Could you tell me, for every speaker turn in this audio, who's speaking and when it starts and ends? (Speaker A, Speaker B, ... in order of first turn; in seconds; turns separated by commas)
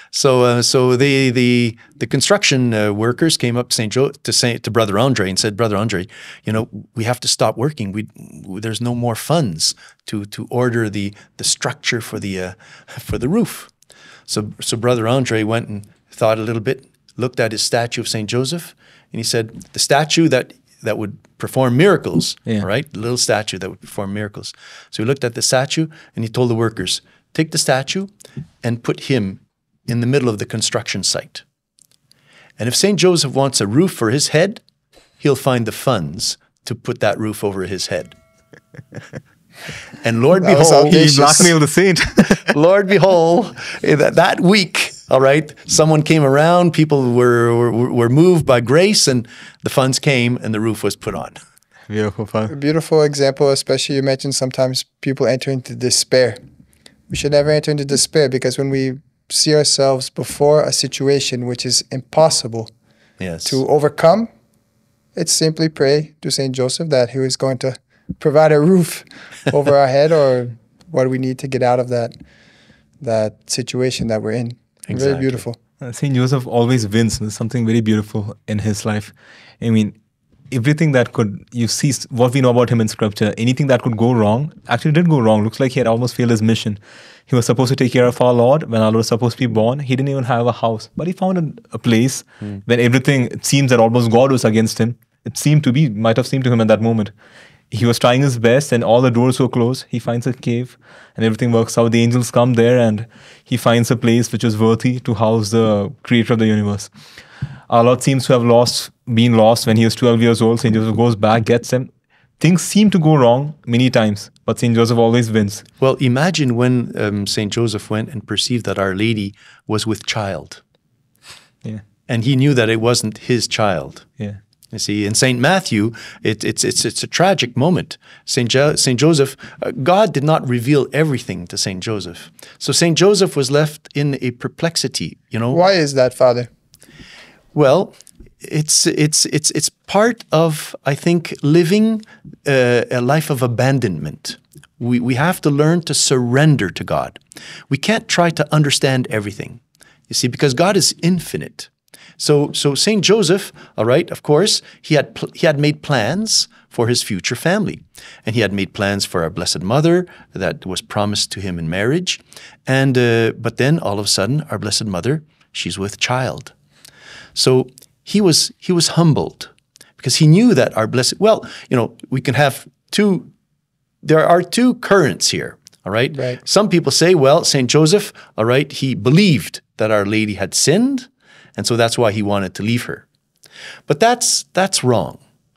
Speaker A: 0.1-13.7, Speaker A: 14.3-28.1, Speaker A: 28.6-31.4, Speaker A: 32.6-34.6, Speaker A: 35.2-38.1, Speaker A: 40.0-41.5, Speaker B: 40.4-41.5, Speaker C: 40.9-42.5, Speaker A: 42.4-51.4, Speaker C: 51.9-52.5, Speaker B: 52.5-56.4, Speaker B: 57.1-62.7, Speaker A: 63.2-63.6, Speaker B: 63.4-64.3, Speaker B: 65.1-72.1, Speaker B: 73.0-75.6, Speaker A: 74.9-75.4, Speaker C: 75.8-79.9, Speaker C: 80.5-97.1, Speaker C: 97.7-106.9, Speaker C: 107.7-115.7, Speaker A: 115.8-120.6, Speaker A: 122.1-124.1, Speaker A: 124.7-135.6, Speaker B: 135.5-136.5, Speaker A: 137.5-147.2, Speaker A: 147.7-166.5, Speaker A: 167.3-173.3, Speaker A: 174.0-183.0, Speaker B: 176.1-176.4, Speaker A: 183.9-185.2